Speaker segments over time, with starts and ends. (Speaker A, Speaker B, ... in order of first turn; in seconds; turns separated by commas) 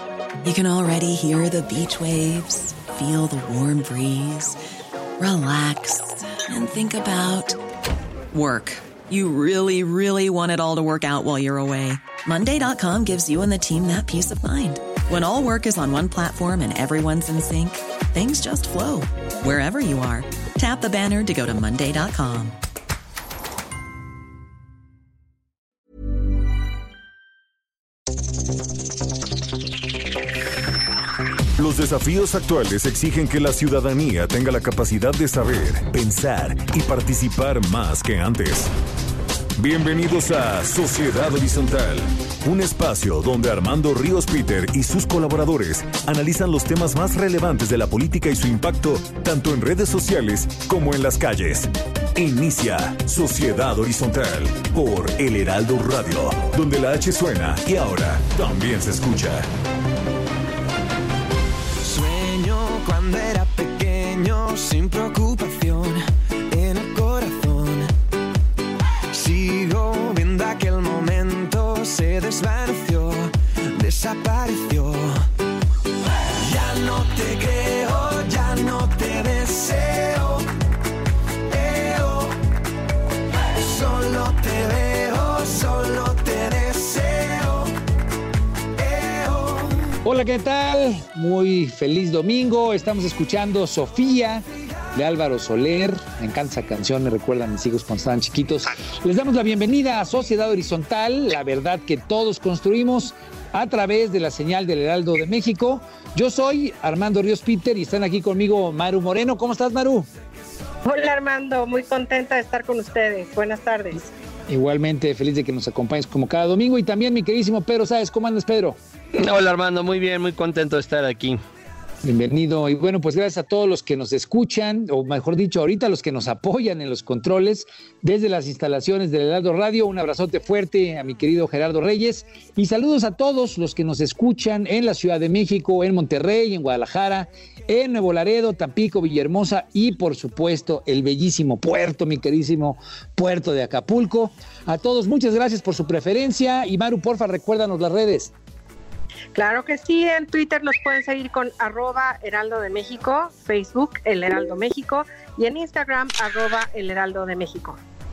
Speaker A: 0.4-4.6, Speaker A: 5.2-7.6, Speaker A: 8.3-22.6, Speaker B: 31.6-38.7, Speaker B: 39.6-59.5, Speaker C: 61.8-67.9, Speaker C: 69.1-75.2, Speaker C: 76.3-80.5, Speaker C: 81.5-82.3, Speaker C: 83.5-87.7, Speaker C: 88.8-89.9, Speaker D: 90.0-110.1, Speaker E: 110.8-114.1, Speaker D: 114.5-118.8, Speaker F: 119.2-121.4, Speaker D: 122.0-148.3, Speaker E: 149.3-157.8